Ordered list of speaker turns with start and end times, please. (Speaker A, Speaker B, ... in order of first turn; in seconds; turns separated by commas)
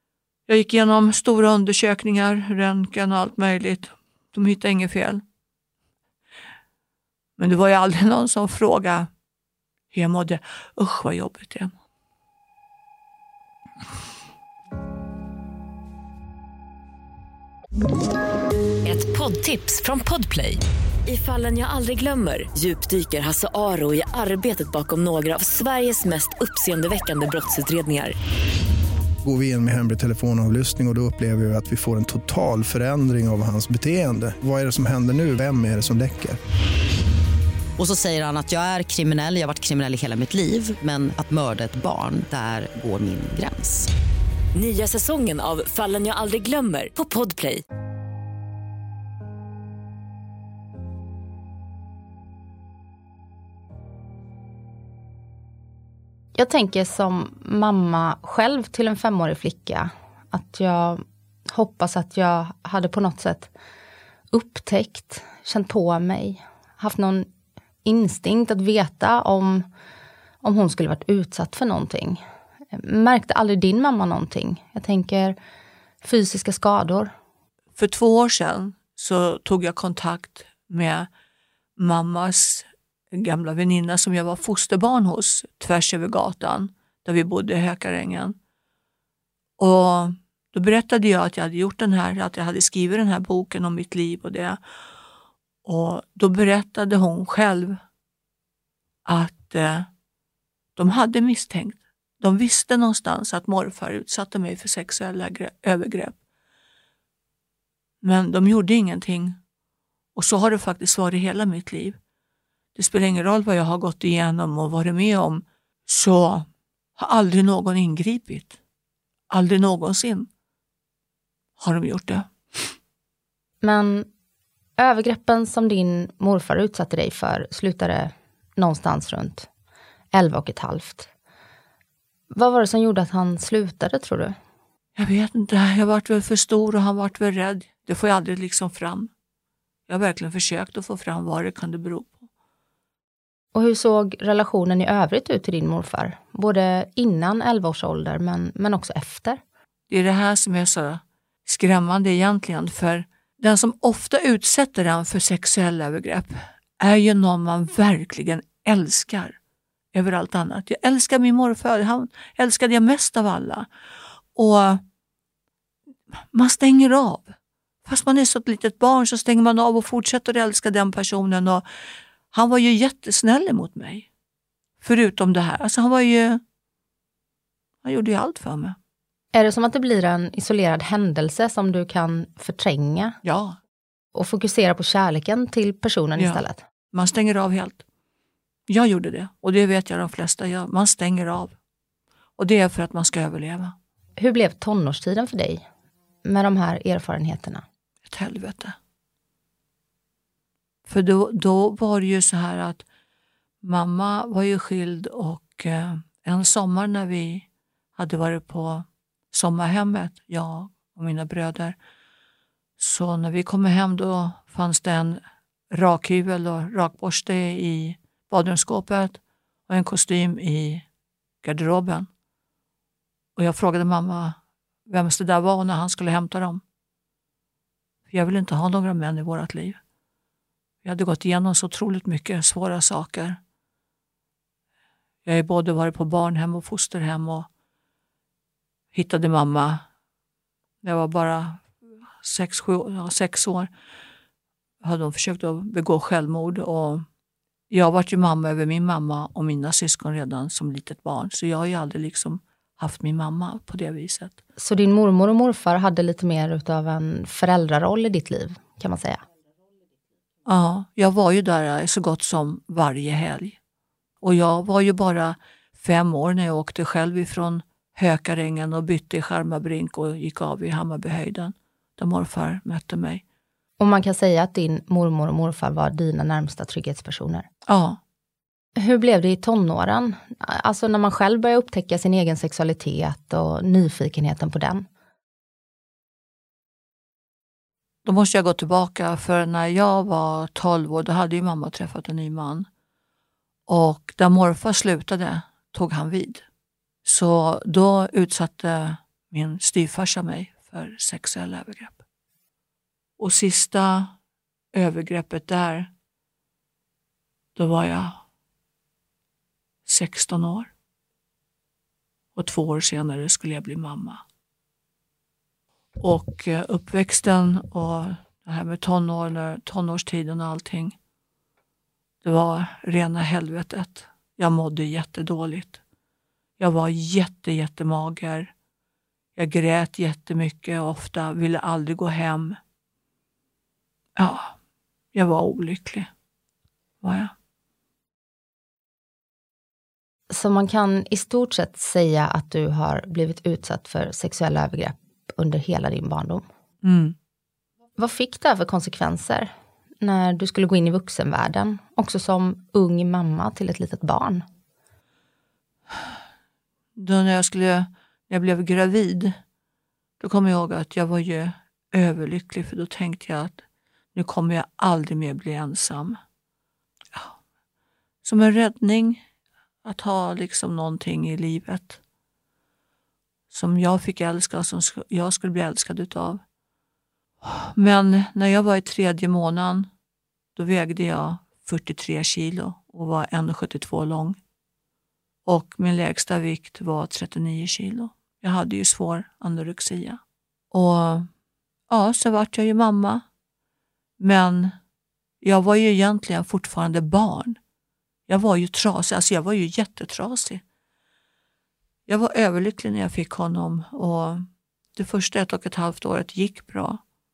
Speaker A: 0.5-5.2, Speaker A: 7.4-9.1, Speaker A: 9.9-11.7, Speaker B: 18.8-28.1, Speaker C: 29.2-36.4, Speaker D: 37.8-43.9, Speaker B: 44.5-47.6, Speaker E: 56.3-63.5, Speaker E: 64.3-67.3, Speaker E: 67.8-69.7, Speaker E: 70.4-75.3, Speaker E: 76.0-77.1, Speaker A: 77.8-81.1, Speaker A: 81.8-88.4, Speaker A: 89.6-94.6, Speaker A: 95.6-97.8, Speaker A: 99.0-99.9, Speaker A: 100.8-106.2, Speaker A: 108.0-109.4, Speaker A: 110.1-112.0, Speaker A: 112.8-118.6, Speaker A: 119.3-120.3, Speaker A: 121.6-122.7, Speaker E: 123.6-124.1, Speaker E: 124.8-129.5, Speaker E: 130.1-131.1, Speaker E: 132.3-134.3, Speaker A: 134.9-139.1, Speaker A: 139.9-142.3, Speaker E: 143.5-149.4, Speaker A: 149.9-159.4, Speaker A: 159.9-163.7, Speaker A: 164.3-164.8, Speaker A: 166.1-167.3, Speaker A: 167.8-171.7, Speaker A: 172.3-174.1, Speaker A: 174.8-176.4, Speaker A: 177.8-178.8, Speaker E: 179.3-183.2, Speaker A: 183.2-183.6, Speaker E: 184.1-186.6, Speaker A: 186.2-187.8, Speaker A: 188.7-191.5, Speaker A: 192.4-193.7, Speaker E: 194.2-195.6, Speaker E: 196.2-197.6, Speaker A: 198.1-198.8, Speaker A: 200.8-202.8, Speaker A: 203.6-207.4, Speaker A: 208.0-211.8, Speaker A: 212.8-220.8, Speaker A: 221.4-222.1, Speaker A: 223.3-226.6, Speaker A: 228.1-229.8, Speaker A: 230.8-233.4, Speaker A: 235.2-237.5, Speaker A: 238.9-239.8, Speaker A: 240.8-241.7, Speaker A: 242.2-243.7, Speaker A: 244.8-247.0, Speaker A: 247.7-254.4, Speaker E: 254.6-259.2, Speaker A: 260.4-263.6, Speaker A: 264.2-273.2, Speaker E: 273.8-277.5, Speaker A: 277.7-278.0, Speaker E: 278.8-284.9, Speaker A: 288.0-292.7, Speaker A: 293.7-296.4, Speaker A: 297.0-302.0, Speaker A: 303.2-304.1, Speaker A: 304.7-305.9, Speaker A: 307.6-308.2, Speaker A: 309.9-310.7, Speaker A: 312.4-314.2, Speaker A: 316.0-320.9, Speaker A: 322.2-325.8, Speaker A: 326.6-328.5, Speaker A: 329.4-332.6, Speaker A: 334.2-334.5, Speaker A: 335.1-336.1, Speaker A: 337.0-337.3, Speaker E: 340.3-346.4, Speaker A: 346.8-347.1, Speaker E: 348.0-354.4, Speaker A: 356.9-359.4, Speaker A: 360.2-363.6, Speaker A: 364.1-366.2, Speaker A: 368.2-369.2, Speaker A: 369.8-372.0, Speaker A: 373.5-376.4, Speaker A: 377.4-379.9, Speaker A: 380.6-384.4, Speaker A: 385.4-390.2, Speaker A: 390.7-391.3, Speaker A: 391.9-393.2, Speaker A: 394.2-394.7, Speaker A: 395.4-397.6, Speaker A: 398.3-400.6, Speaker A: 402.1-407.0